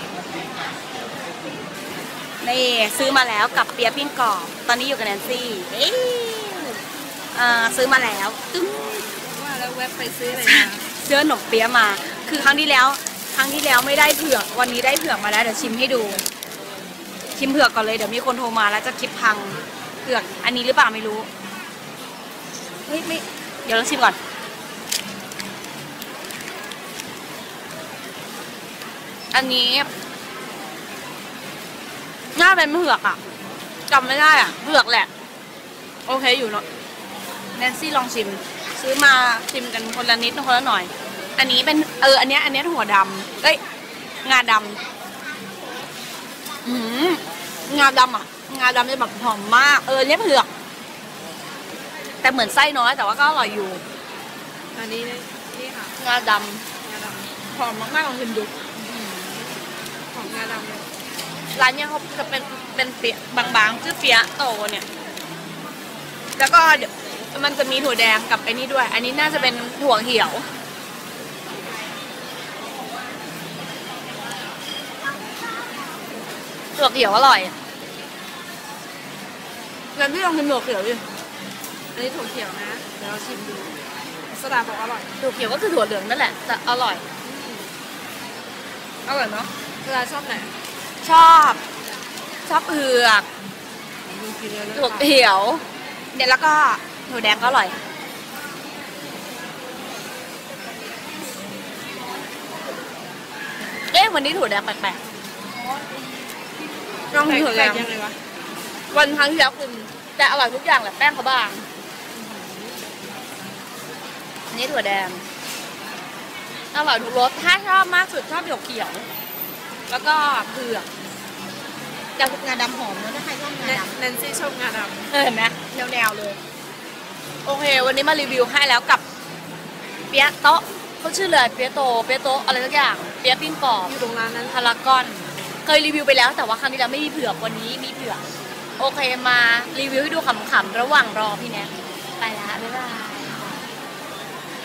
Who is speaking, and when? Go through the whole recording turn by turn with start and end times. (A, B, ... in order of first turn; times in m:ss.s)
0:02.4-0:06.8 A
0:07.3-0:09.1 A
0:09.2-0:10.8 B
0:10.4-0:16.2 A
0:17.4-0:21.3 A
0:22.9-0:24.2 A
0:29.3-0:29.9 A
0:32.3-0:33.2 A
0:33.9-0:35.1 A
0:36.0-0:36.6 A
0:37.5-0:43.6 A
0:44.2-0:44.8 A
0:46.6-0:50.5 A
0:52.2-0:53.8 A
0:54.7-0:55.9 B
0:56.0-0:56.6 A
0:56.8-0:57.3 B
0:57.5-0:58.5 A
0:58.8-0:59.5 B
1:00.1-1:00.9 B
1:01.5-1:04.8 A
1:06.4-1:10.4 A
1:16.8-1:17.5 A
1:19.9-1:21.0 A
1:21.9-1:25.1 B
1:25.2-1:27.0 A
1:27.2-1:27.7 B
1:29.0-1:29.5 A
1:29.8-1:30.5 B
1:31.0-1:31.6 A
1:32.4-1:33.2 A
1:34.0-1:35.1 B
1:34.7-1:37.8 A
1:43.9-1:45.0 A
1:45.6-1:46.2 B
1:47.1-1:48.2 B
1:47.1-1:47.9 A
1:48.9-1:51.6 A
1:52.1-1:52.8 B
1:54.5-1:55.2 A
1:56.7-1:59.0 A
1:59.9-2:00.9 A
2:02.2-2:03.9 A
2:03.6-2:05.0 B
2:05.1-2:06.4 A
2:07.4-2:09.0 A
2:10.1-2:13.9 A
2:13.8-2:14.6 B
2:14.5-2:18.2 A
2:18.8-2:23.5 A